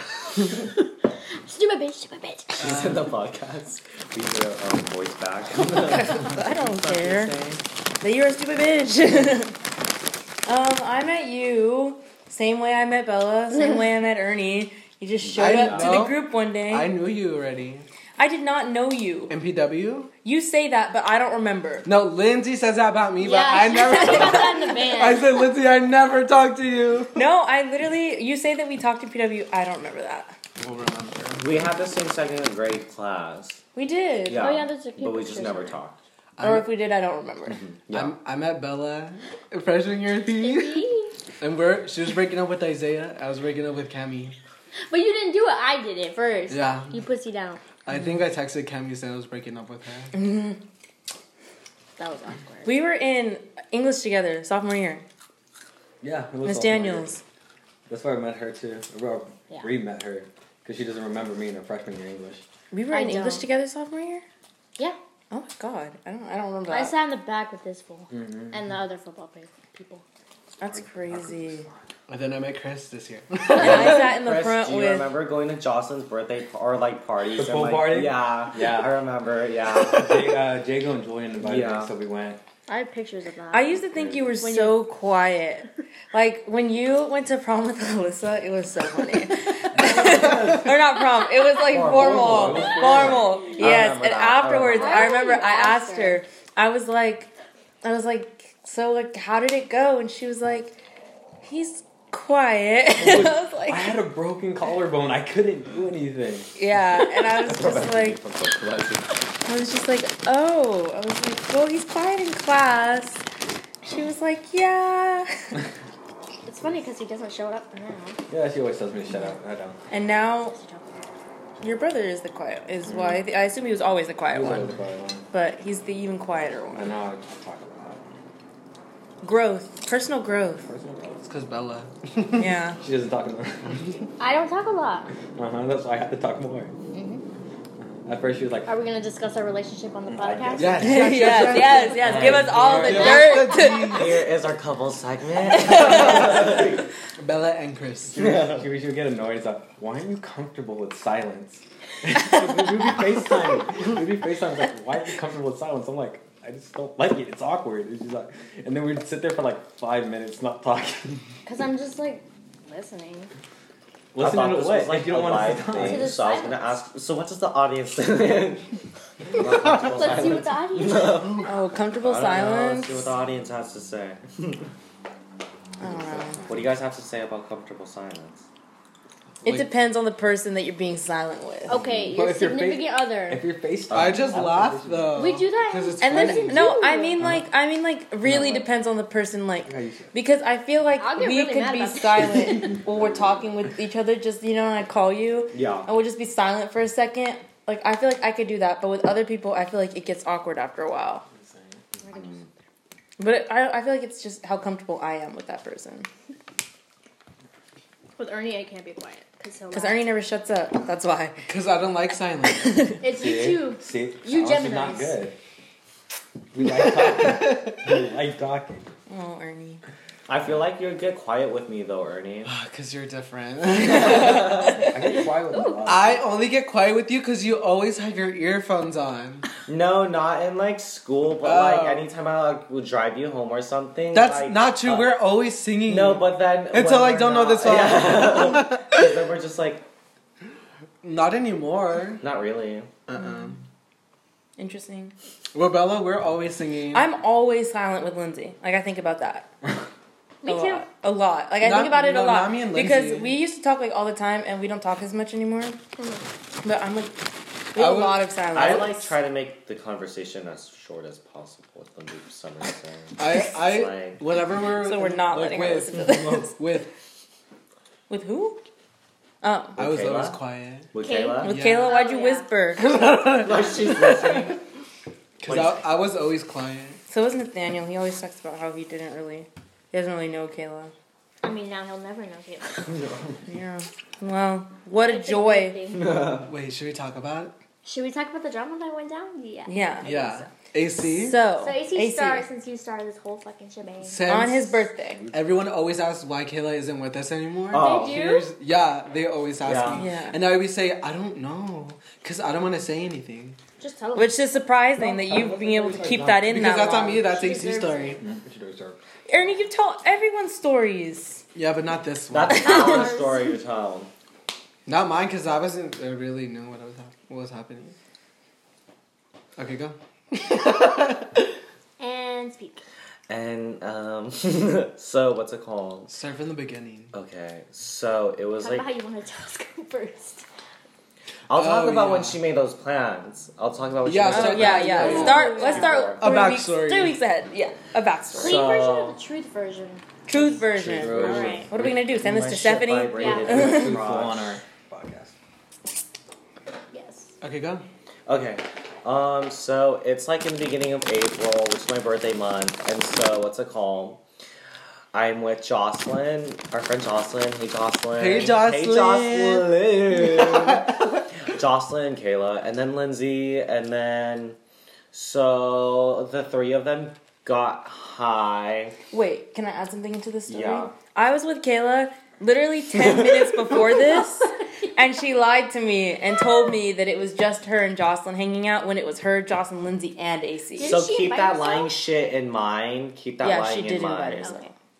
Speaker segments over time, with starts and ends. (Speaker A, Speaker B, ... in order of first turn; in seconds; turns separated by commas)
Speaker A: 0.3-2.7, Speaker B: 2.6-7.6, Speaker C: 2.6-3.1, Speaker D: 5.9-7.3, Speaker D: 8.0-9.5, Speaker D: 10.4-16.9, Speaker B: 15.2-16.0, Speaker C: 15.4-17.9, Speaker D: 18.2-19.4, Speaker C: 19.3-20.1, Speaker D: 20.2-21.9, Speaker C: 21.8-27.2, Speaker A: 23.2-25.3, Speaker D: 23.9-24.4, Speaker D: 27.1-30.4, Speaker C: 30.6-31.6, Speaker B: 31.4-33.6, Speaker D: 33.7-34.5, Speaker B: 34.2-36.0, Speaker A: 34.3-35.8, Speaker C: 36.4-36.7, Speaker D: 36.4-37.6, Speaker B: 37.5-38.1, Speaker C: 37.9-40.9, Speaker A: 40.2-41.1, Speaker C: 41.4-44.3, Speaker A: 44.9-47.6, Speaker C: 46.5-47.0, Speaker C: 47.8-50.1, Speaker D: 50.1-50.6, Speaker A: 52.0-52.8, Speaker D: 52.6-55.0, Speaker E: 56.0-57.2, Speaker D: 56.4-57.2, Speaker E: 57.9-62.4, Speaker D: 62.7-64.2, Speaker A: 62.9-63.5, Speaker D: 65.3-66.9, Speaker A: 66.7-70.0, Speaker E: 68.1-68.5, Speaker D: 70.6-71.7, Speaker E: 70.7-71.9, Speaker C: 72.1-74.1, Speaker D: 73.5-75.1, Speaker B: 73.6-80.3, Speaker E: 77.3-79.0, Speaker E: 79.8-82.4, Speaker B: 81.4-81.9, Speaker A: 82.7-83.7, Speaker D: 83.5-97.3, Speaker E: 83.9-84.2, Speaker A: 84.4-84.8, Speaker B: 91.7-95.2, Speaker E: 91.7-93.3, Speaker A: 94.7-96.2, Speaker D: 97.8-100.8, Speaker D: 101.4-103.9, Speaker E: 103.0-106.5, Speaker D: 106.5-108.2, Speaker B: 107.4-109.2, Speaker D: 109.5-113.2, Speaker D: 113.8-115.5, Speaker A: 116.5-118.2, Speaker E: 118.3-119.8, Speaker D: 119.9-120.5, Speaker A: 120.5-121.1, Speaker D: 121.6-124.7, Speaker E: 122.8-123.2, Speaker E: 124.3-125.2, Speaker D: 125.3-126.9, Speaker E: 126.7-128.1, Speaker D: 129.2-130.7, Speaker E: 130.6-131.2, Speaker C: 131.2-132.4, Speaker D: 132.3-132.8, Speaker E: 132.8-134.1, Speaker A: 134.2-135.1, Speaker E: 135.3-136.7, Speaker A: 136.9-137.2, Speaker E: 137.8-138.7, Speaker A: 138.7-140.9, Speaker E: 140.1-141.4, Speaker C: 140.6-144.1, Speaker D: 140.8-144.0, Speaker B: 141.9-143.1, Speaker E: 142.2-142.8, Speaker A: 142.8-143.8, Speaker B: 143.8-146.8, Speaker D: 145.6-146.2, Speaker C: 147.2-148.2, Speaker E: 148.1-161.3, Speaker B: 148.2-148.7, Speaker A: 161.4-163.3, Speaker E: 164.1-166.2, Speaker B: 164.2-168.7, Speaker A: 165.8-166.8, Speaker B: 169.3-174.7, Speaker A: 169.7-171.4, Speaker D: 171.4-173.1, Speaker D: 175.8-176.4, Speaker E: 175.8-176.6, Speaker B: 176.5-178.5, Speaker D: 179.4-181.8, Speaker A: 181.7-183.4, Speaker E: 181.7-185.3, Speaker B: 183.9-184.5, Speaker C: 183.9-186.7, Speaker A: 185.1-187.2, Speaker D: 186.0-201.2, Speaker E: 187.2-187.4, Speaker E: 188.2-188.7, Speaker E: 189.7-190.1, Speaker A: 191.0-192.7, Speaker B: 195.5-195.9, Speaker E: 201.3-202.0, Speaker A: 202.0-202.4, Speaker B: 202.1-202.4, Speaker D: 203.2-206.1, Speaker A: 208.2-210.1, Speaker D: 209.7-211.4, Speaker C: 211.5-212.9, Speaker D: 212.5-213.0, Speaker A: 213.0-215.2, Speaker E: 213.0-215.3, Speaker E: 216.5-218.9, Speaker C: 217.1-217.8, Speaker D: 219.1-219.8, Speaker B: 220.3-222.5, Speaker C: 222.4-224.9, Speaker B: 223.8-224.9, Speaker E: 224.8-226.3, Speaker A: 225.5-225.9, Speaker C: 225.8-229.4, Speaker B: 229.7-235.1, Speaker C: 231.4-232.1, Speaker C: 234.1-239.2, Speaker B: 235.8-239.8, Speaker C: 241.0-242.2, Speaker B: 242.2-242.9, Speaker C: 243.1-243.6, Speaker D: 244.6-245.1, Speaker C: 245.5-247.1, Speaker D: 246.9-249.5, Speaker A: 250.4-250.8, Speaker D: 250.4-255.8, Speaker C: 251.6-253.4, Speaker A: 256.0-256.2, Speaker D: 256.6-257.1, Speaker D: 257.7-259.1, Speaker C: 257.7-258.2, Speaker B: 258.5-264.2, Speaker C: 263.2-266.9, Speaker D: 264.7-266.6, Speaker D: 268.1-268.6, Speaker D: 269.4-269.8, Speaker B: 269.8-270.4, Speaker C: 269.8-270.9, Speaker B: 270.9-271.6, Speaker A: 271.0-272.5, Speaker D: 271.4-272.9, Speaker C: 271.4-271.9, Speaker C: 272.8-273.5, Speaker B: 273.4-274.6, Speaker C: 275.4-277.0, Speaker B: 275.4-275.8, Speaker D: 277.1-280.9, Speaker A: 281.4-283.0, Speaker D: 283.5-285.8, Speaker A: 285.0-286.2, Speaker B: 285.9-286.4, Speaker C: 286.2-287.5, Speaker A: 287.8-290.5, Speaker D: 289.7-290.1, Speaker C: 290.0-291.4, Speaker D: 291.0-292.5, Speaker A: 291.6-294.2, Speaker C: 294.0-303.6, Speaker D: 294.2-295.3, Speaker B: 297.7-298.2, Speaker A: 297.8-298.5, Speaker B: 299.6-300.0, Speaker D: 300.0-300.4, Speaker A: 303.8-304.5, Speaker D: 304.1-307.3, Speaker E: 305.0-306.7, Speaker C: 306.4-308.2, Speaker A: 307.1-308.2, Speaker E: 308.2-309.0, Speaker D: 309.3-311.4, Speaker C: 311.5-313.0, Speaker B: 312.3-314.1, Speaker A: 312.5-313.5, Speaker D: 312.6-313.1, Speaker C: 314.9-317.9, Speaker C: 319.6-321.5, Speaker A: 322.0-322.8, Speaker B: 323.3-326.1, Speaker C: 326.1-327.1, Speaker B: 327.1-328.9, Speaker A: 328.6-330.4, Speaker B: 331.5-336.3, Speaker C: 331.5-332.4, Speaker C: 334.0-335.6, Speaker D: 334.3-338.7, Speaker A: 334.9-336.1, Speaker C: 336.1-337.2, Speaker B: 338.3-339.2, Speaker A: 338.3-340.0, Speaker D: 340.3-344.0, Speaker E: 340.5-341.7, Speaker B: 341.0-344.6, Speaker A: 341.1-341.7, Speaker A: 343.1-343.6, Speaker E: 343.4-345.3, Speaker A: 346.9-347.3, Speaker C: 347.4-347.8, Speaker B: 348.3-354.2, Speaker B: 355.1-364.6, Speaker C: 358.1-361.0, Speaker B: 365.1-368.9, Speaker D: 369.1-381.0, Speaker B: 370.5-370.9, Speaker B: 372.9-373.8, Speaker A: 380.7-381.9, Speaker B: 380.8-384.6, Speaker D: 383.4-384.7